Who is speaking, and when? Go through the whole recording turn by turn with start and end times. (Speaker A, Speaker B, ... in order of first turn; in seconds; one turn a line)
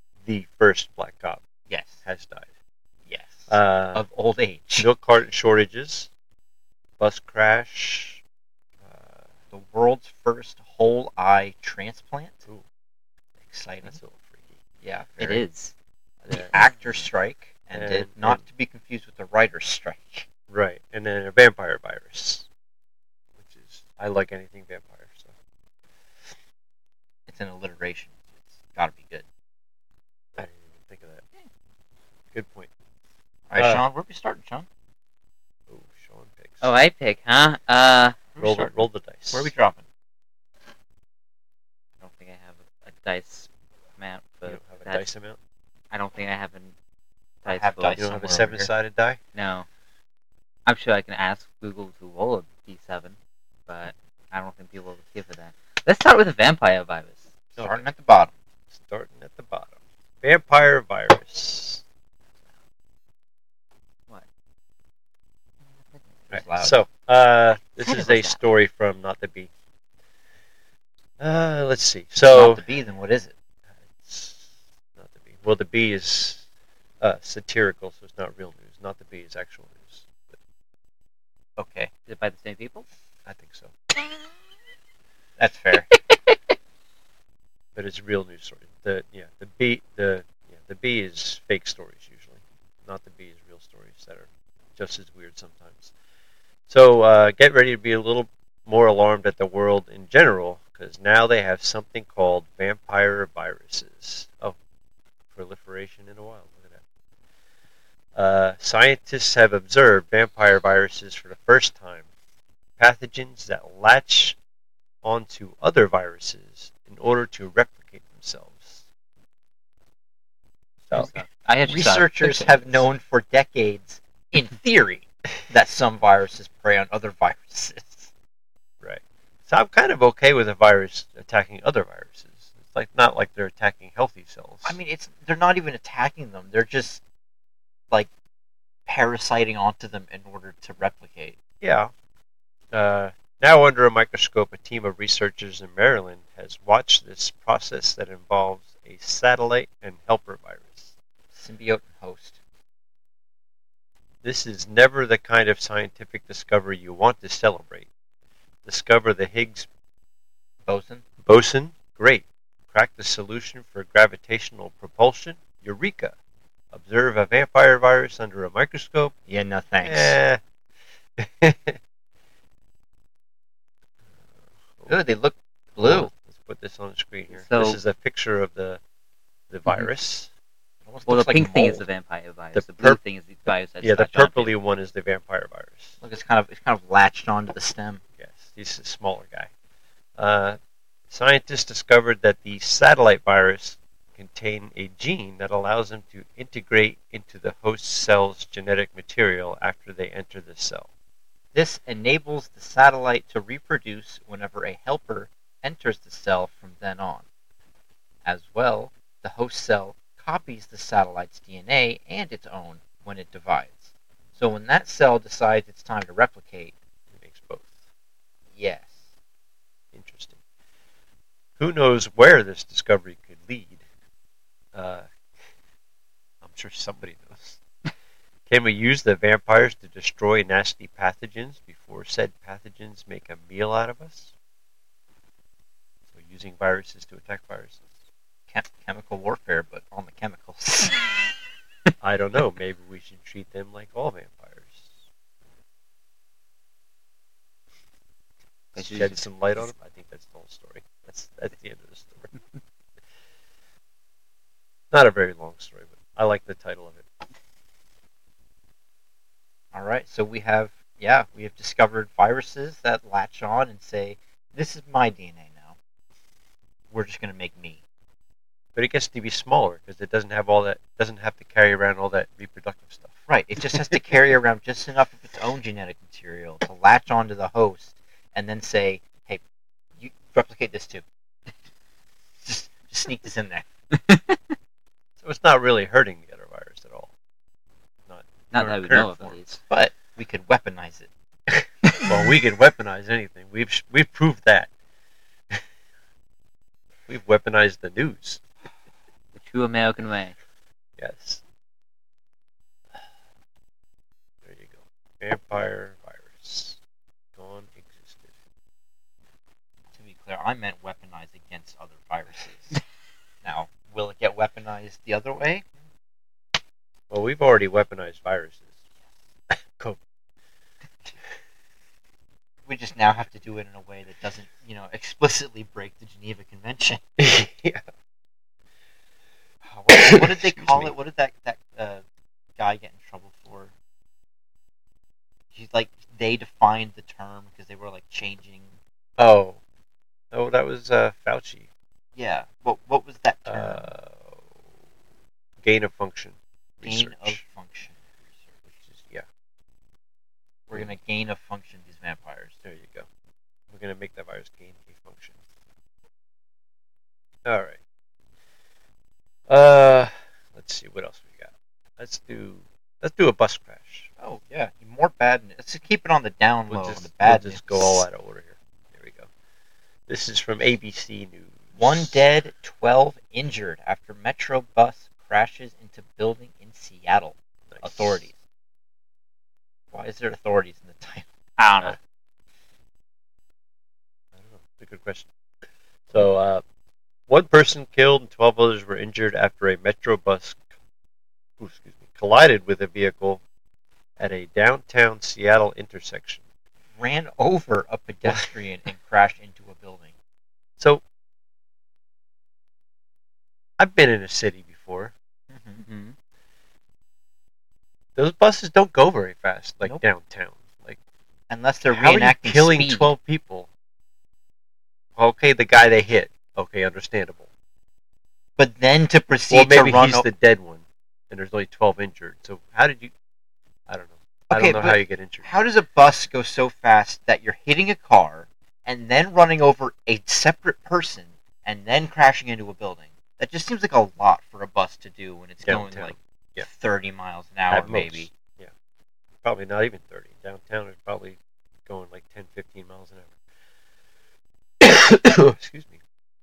Speaker A: 0.2-1.4
Speaker B: 1.7-2.0
Speaker A: 2.0-2.5
Speaker B: 3.1-4.9
Speaker A: 3.5-4.0
Speaker A: 4.8-6.1
Speaker A: 7.0-8.2
Speaker A: 8.8-9.2
Speaker B: 9.5-12.4
Speaker B: 13.4-14.0
Speaker A: 13.8-14.6
Speaker B: 14.8-15.4
Speaker C: 15.2-15.7
Speaker A: 16.3-16.6
Speaker B: 16.4-20.2
Speaker A: 17.7-18.4
Speaker A: 20.5-22.5
Speaker A: 23.4-25.3
Speaker B: 27.3-29.2
Speaker A: 30.4-31.2
Speaker A: 32.3-32.7
Speaker B: 33.5-34.7
Speaker A: 33.5-33.8
Speaker A: 35.7-36.6
Speaker C: 36.6-38.2
Speaker B: 38.3-39.8
Speaker A: 38.4-39.5
Speaker C: 42.0-45.1
Speaker A: 44.5-45.4
Speaker C: 45.9-46.7
Speaker C: 47.4-48.0
Speaker B: 47.4-48.7
Speaker A: 48.0-49.2
Speaker C: 49.3-49.7
Speaker C: 50.7-53.1
Speaker C: 53.7-57.3
Speaker A: 57.5-57.8
Speaker B: 57.6-58.3
Speaker A: 58.7-61.8
Speaker C: 65.7-66.4
Speaker A: 66.3-69.5
Speaker B: 66.3-66.8
Speaker C: 67.8-68.4
Speaker A: 71.2-72.6
Speaker B: 72.3-73.3
Speaker A: 74.0-76.5
Speaker A: 77.0-80.4
Speaker B: 81.6-81.9
Speaker C: 82.1-82.8
Speaker A: 83.2-83.7
Speaker B: 85.4-85.9
Speaker A: 87.7-95.9
Speaker A: 96.7-104.6
Speaker A: 105.3-106.8
Speaker A: 108.1-112.1
Speaker A: 112.8-114.4
Speaker A: 115.0-118.9
Speaker A: 120.9-121.2
Speaker C: 120.9-122.9
Speaker B: 121.7-128.1
Speaker A: 128.8-134.8
Speaker B: 134.6-137.0
Speaker B: 138.8-141.4
Speaker A: 141.6-141.9
Speaker A: 142.7-150.9
Speaker B: 151.3-152.4
Speaker A: 154.2-157.9
Speaker A: 158.6-159.7
Speaker B: 160.7-161.0
Speaker A: 161.2-166.1
Speaker A: 166.7-169.1
Speaker B: 169.3-170.2
Speaker A: 169.8-170.4
Speaker A: 171.2-171.8
Speaker A: 174.5-175.0
Speaker B: 174.9-176.1
Speaker A: 175.8-178.8
Speaker C: 177.3-177.8
Speaker A: 179.5-180.3
Speaker B: 180.8-181.8
Speaker C: 181.1-184.5
Speaker A: 182.5-183.0
Speaker A: 183.8-186.0
Speaker B: 186.0-188.0
Speaker A: 188.2-189.5
Speaker A: 190.2-190.6
Speaker A: 191.1-200.9
Speaker B: 201.5-207.2
Speaker B: 208.2-216.7
Speaker A: 217.1-217.8
Speaker B: 218.6-219.0
Speaker A: 219.9-220.4
Speaker A: 221.6-223.8
Speaker A: 224.7-225.1
Speaker A: 226.4-227.6
Speaker A: 228.5-234.3
Speaker A: 236.1-237.8
Speaker B: 238.5-241.0
Speaker A: 242.0-245.1
Speaker C: 248.7-249.7
Speaker A: 248.7-252.3
Speaker A: 254.9-257.0
Speaker B: 259.7-265.8
Speaker B: 266.9-267.8
Speaker A: 268.8-273.1
Speaker B: 273.3-279.4
Speaker B: 280.0-281.0
Speaker B: 282.4-283.7
Speaker C: 284.1-284.4
Speaker A: 285.2-287.1
Speaker A: 288.1-289.6
Speaker C: 288.5-289.6
Speaker B: 289.7-291.1
Speaker A: 291.5-294.7
Speaker A: 297.1-298.4
Speaker C: 299.3-300.3
Speaker A: 301.0-301.4
Speaker A: 304.4-306.8
Speaker A: 307.4-308.3
Speaker B: 309.9-312.8
Speaker B: 313.4-315.6
Speaker A: 317.1-318.8
Speaker A: 319.5-320.0
Speaker B: 322.7-327.0
Speaker A: 327.2-327.8
Speaker B: 329.6-332.0
Speaker A: 329.9-330.9
Speaker B: 332.6-333.7
Speaker B: 335.5-338.8
Speaker A: 339.2-339.6
Speaker A: 340.3-341.7
Speaker B: 342.1-343.9
Speaker A: 343.4-344.4
Speaker A: 345.6-347.4
Speaker B: 346.8-348.5
Speaker A: 348.8-349.2
Speaker B: 350.7-352.5
Speaker A: 352.6-353.1
Speaker A: 353.7-355.4
Speaker A: 357.4-357.8
Speaker A: 359.5-364.1
Speaker B: 364.2-368.1
Speaker A: 366.7-369.3
Speaker A: 370.1-372.2
Speaker B: 371.8-378.4
Speaker A: 377.7-378.3
Speaker B: 379.9-381.3
Speaker C: 381.6-381.9
Speaker A: 384.3-385.3
Speaker A: 386.1-386.6
Speaker A: 387.3-390.6
Speaker A: 391.6-393.4
Speaker A: 394.2-396.4
Speaker B: 397.0-400.1
Speaker A: 403.8-405.1
Speaker B: 405.5-405.8
Speaker C: 405.9-406.1
Speaker A: 408.1-411.0
Speaker B: 411.5-413.1
Speaker A: 411.9-413.7
Speaker A: 415.2-417.5
Speaker B: 418.6-420.3
Speaker A: 419.5-423.1
Speaker A: 423.9-425.5
Speaker B: 424.5-438.3
Speaker A: 435.6-436.7
Speaker A: 437.7-438.7
Speaker A: 439.4-443.4
Speaker A: 444.8-446.0